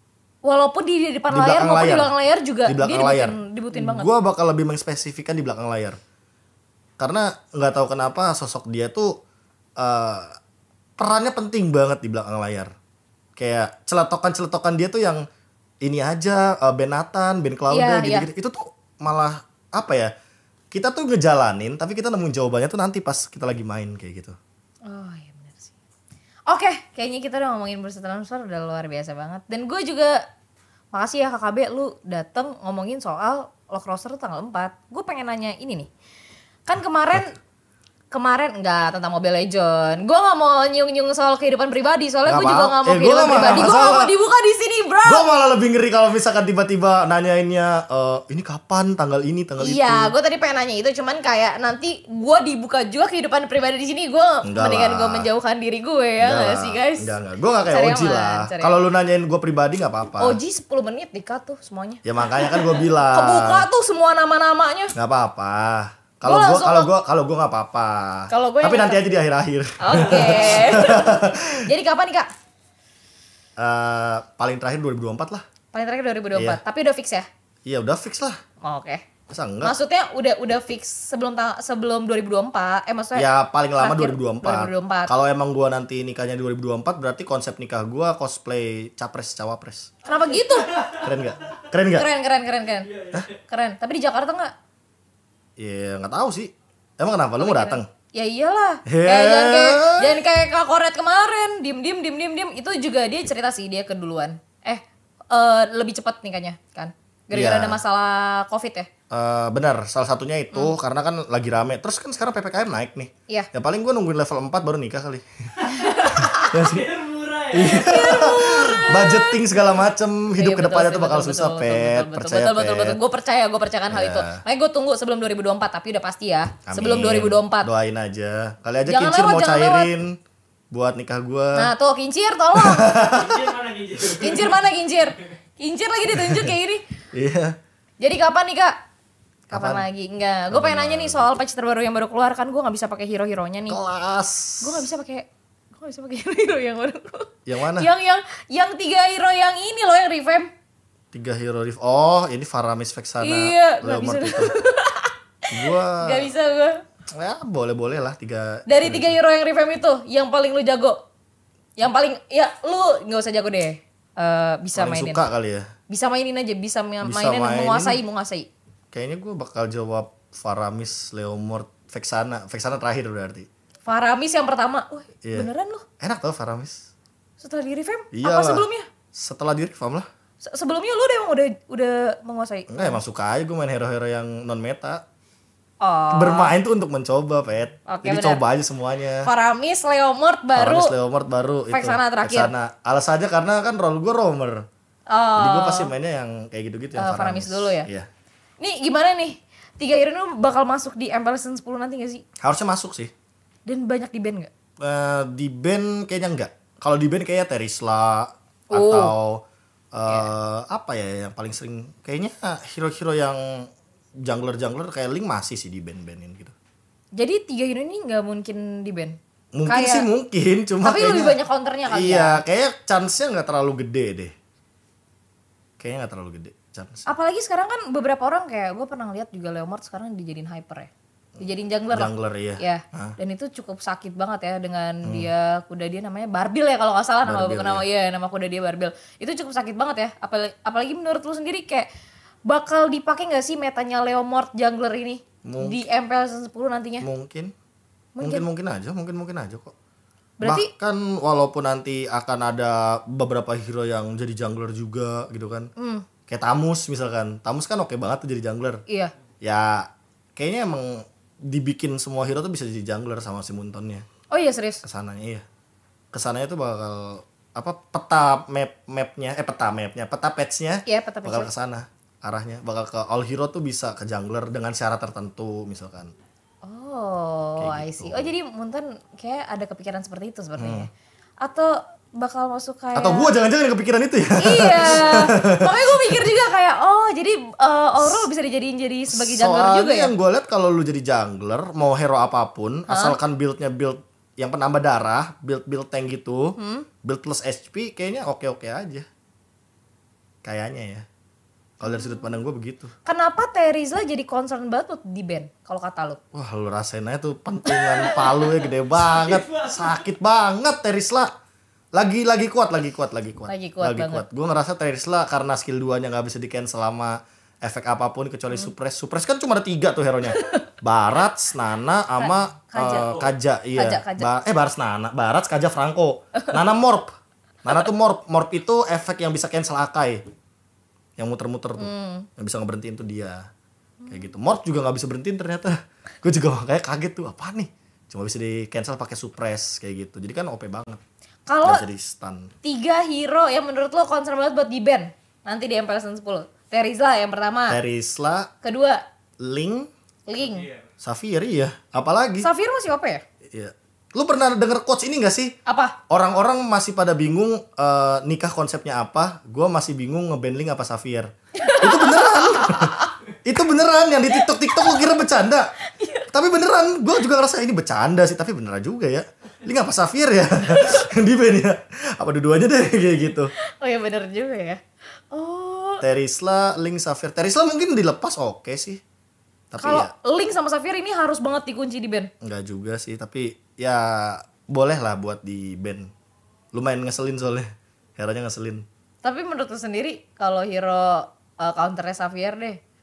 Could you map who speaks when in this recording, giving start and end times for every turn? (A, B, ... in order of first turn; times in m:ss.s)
0:00.4-0:04.1 A
0:01.3-0:02.1 B
0:02.6-0:06.0 B
0:07.0-0:09.2 B
0:09.8-0:10.4 B
0:11.0-0:12.7 B
0:13.4-0:15.2 B
0:15.8-0:20.1 B
0:17.7-0:18.3 A
0:20.7-0:24.4 B
0:24.8-0:25.7 A
0:26.5-0:30.2 A
0:30.9-0:35.9 A
0:36.6-0:37.3 A
0:38.1-0:45.2 A
0:42.2-0:44.1 B
0:45.0-0:50.1 B
0:49.6-0:57.1 A
0:54.4-0:55.3 B
0:56.2-1:00.4 B
0:57.6-0:58.8 A
1:00.2-1:04.9 A
1:02.0-1:03.6 B
1:04.9-1:11.7 B
1:06.2-1:06.9 A
1:08.3-1:09.1 A
1:09.8-1:12.3 A
1:13.6-1:15.4 B
1:15.7-1:17.3 A
1:16.3-1:16.6 B
1:17.6-1:18.4 B
1:18.6-1:19.0 A
1:19.3-1:19.7 B
1:19.6-1:25.1 A
1:23.1-1:29.9 B
1:30.0-1:31.0 A
1:30.7-1:31.0 C
1:30.9-1:32.1 B
1:31.9-1:34.5 A
1:32.9-1:33.2 C
1:35.6-1:37.9 B
1:37.4-1:48.9 A
1:38.8-1:40.2 B
1:47.3-1:47.8 B
1:49.1-1:56.9 B
1:55.7-1:58.3 C
1:55.8-1:56.6 A
1:57.5-2:03.0 B
1:57.6-1:59.8 A
2:00.3-2:07.7 A
2:03.9-2:04.4 B
2:06.6-2:10.2 B
2:08.9-2:09.9 A
2:10.7-2:11.7 B
2:11.5-2:13.0 A
2:12.5-2:13.5 B
2:13.1-2:14.6 C
2:14.1-2:16.8 A
2:17.1-2:17.6 B
2:18.0-2:18.8 A
2:19.5-2:23.8 A
2:19.5-2:19.8 B
2:20.5-2:21.3 B
2:23.7-2:24.8 B
2:24.6-2:30.5 A
2:27.4-2:27.9 B
2:31.1-2:34.5 B
2:33.2-2:36.8 A
2:35.5-2:36.3 B
2:37.1-2:39.2 B
2:38.7-2:41.0 A
2:41.8-2:45.2 A
2:44.7-2:45.7 B
2:45.9-2:48.5 A
2:47.0-2:48.0 B
2:48.9-2:53.5 B
2:53.8-2:55.8 A
2:55.2-2:56.8 B
2:57.4-2:58.9 A
2:58.1-3:00.1 B
3:00.4-3:03.0 A
3:02.7-3:05.0 B
3:05.8-3:06.5 A
3:06.1-3:09.3 B
3:07.9-3:08.4 A
3:09.2-3:10.9 A
3:10.6-3:14.6 B
3:11.7-3:12.5 A
3:15.1-3:15.9 A
3:15.4-3:18.1 B
3:16.9-3:17.9 A
3:18.6-3:22.2 A
3:22.4-3:23.1 B
3:23.6-3:24.5 A
3:24.8-3:33.7 B
3:28.7-3:29.1 A
3:34.2-3:36.5 B
3:37.1-3:40.1 A
3:39.5-3:44.3 B
3:40.8-3:42.4 A
3:45.8-3:47.0 B
3:47.0-4:01.9 A
3:51.9-3:53.2 B
3:55.0-3:55.3 B
3:57.2-3:57.8 B
4:02.4-4:07.1 A
4:05.4-4:05.8 B
4:07.0-4:07.5 B
4:08.2-4:08.4 A
4:08.2-4:09.7 B
4:10.4-4:10.7 A
4:10.4-4:15.7 B
4:15.8-4:16.1 A
4:16.3-4:18.8 B
4:18.9-4:19.1 A
4:19.4-4:24.0 B
4:24.3-4:24.8 A
4:24.8-4:25.4 B
4:26.1-4:36.1 B
4:30.8-4:31.5 A
4:36.6-4:40.9 A
4:37.6-4:38.3 B
4:40.6-4:40.9 B
4:41.4-4:43.3 A
4:42.9-4:46.2 B
4:44.4-4:50.1 A
4:49.1-4:59.0 B
4:52.9-4:53.2 A
4:56.6-4:56.9 A
5:00.4-5:01.0 B
5:01.8-5:02.9 B
5:01.9-5:02.2 A
5:03.0-5:06.2 A
5:06.3-5:11.3 B
5:07.7-5:08.4 A
5:09.1-5:09.7 C
5:11.9-5:27.1 B
5:13.5-5:14.2 A
5:20.3-5:20.6 A
5:22.2-5:23.2 A
5:23.7-5:24.3 A
5:27.6-5:30.2 B
5:31.2-5:33.4 B
5:31.8-5:32.3 A
5:34.0-5:34.3 A
5:34.1-5:41.0 B
5:41.5-5:41.8 A
5:41.6-5:42.5 B
5:42.6-5:47.8 A
5:47.7-5:48.5 B
5:48.6-5:49.0 A
5:49.4-5:49.9 B
5:50.3-5:50.7 A
5:50.4-5:50.8 C
5:51.0-5:52.5 B
5:52.4-5:53.2 A
5:53.5-5:55.5 B
5:55.6-5:56.0 A
5:56.1-6:05.7 B
6:01.6-6:03.1 A
6:04.3-6:05.2 A
6:05.8-6:06.3 A
6:06.3-6:13.5 B
6:10.7-6:11.0 A
6:13.6-6:16.0 A
6:16.0-6:19.0 B
6:19.7-6:20.1 B
6:19.8-6:22.3 A
6:22.4-6:26.1 B
6:26.7-6:28.8 B
6:29.2-6:32.8 A